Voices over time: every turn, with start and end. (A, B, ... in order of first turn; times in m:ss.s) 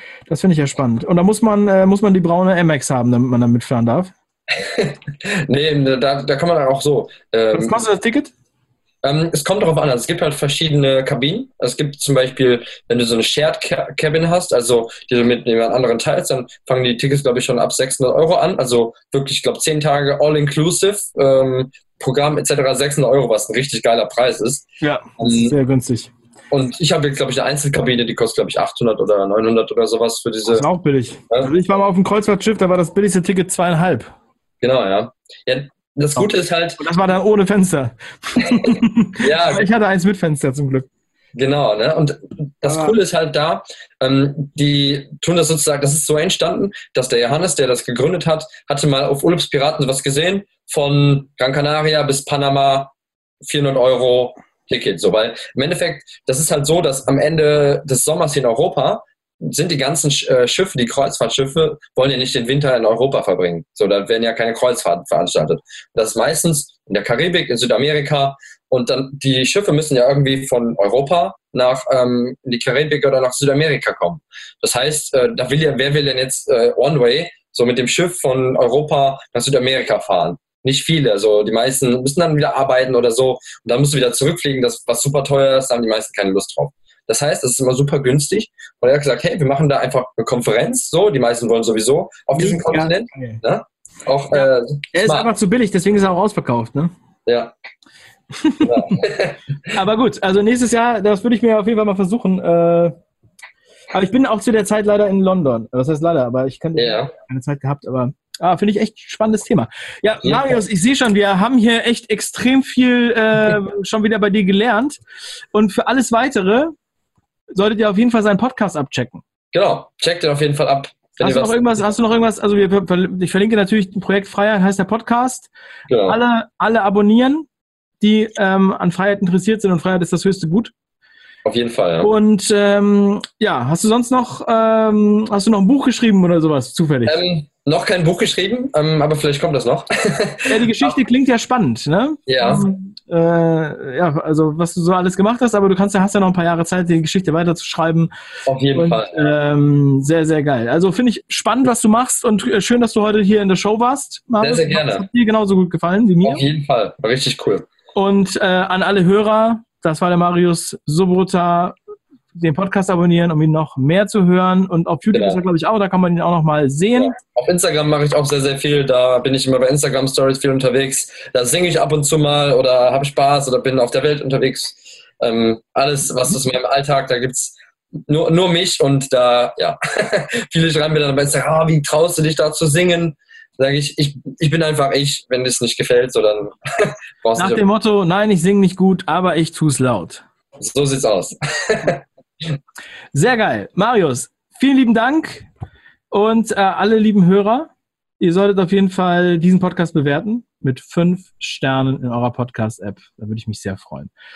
0:00.3-0:04.1 A
0:04.5-0:07.8 B
0:07.5-0:08.3 A
0:09.0-0:24.6 B
0:24.8-0:26.1 A
0:25.2-0:25.5 B
0:26.5-0:30.6 B
0:30.5-0:34.1 A
0:34.6-0:36.8 B
0:36.2-0:40.9 A
0:38.4-0:39.7 B
0:41.3-1:35.3 B
0:42.6-0:42.9 A
1:32.3-1:33.4 A
1:34.4-1:36.9 A
1:37.2-1:37.5 B
1:38.3-1:39.0 A
1:38.6-1:39.5 B
1:39.7-1:42.9 A
1:43.9-1:55.0 A
1:46.7-1:47.1 B
1:50.2-1:50.6 B
1:55.5-1:56.7 A
1:57.5-1:59.2 A
1:59.5-2:01.9 B
2:01.2-2:05.5 A
2:05.9-2:06.2 B
2:06.0-2:07.5 A
2:08.0-2:10.7 A
2:11.4-2:12.1 B
2:12.0-2:17.2 A
2:17.0-2:21.0 B
2:20.5-2:28.1 A
2:22.3-2:22.6 B
2:28.5-2:29.3 B
2:28.7-2:36.4 A
2:34.4-2:35.0 B
2:36.2-2:37.7 B
2:37.9-2:41.8 A
2:42.3-2:47.2 A
2:45.1-2:45.4 B
2:47.0-3:07.6 B
3:07.4-3:10.2 A
3:10.6-3:12.5 B
3:13.1-3:15.5 A
3:16.1-3:24.1 A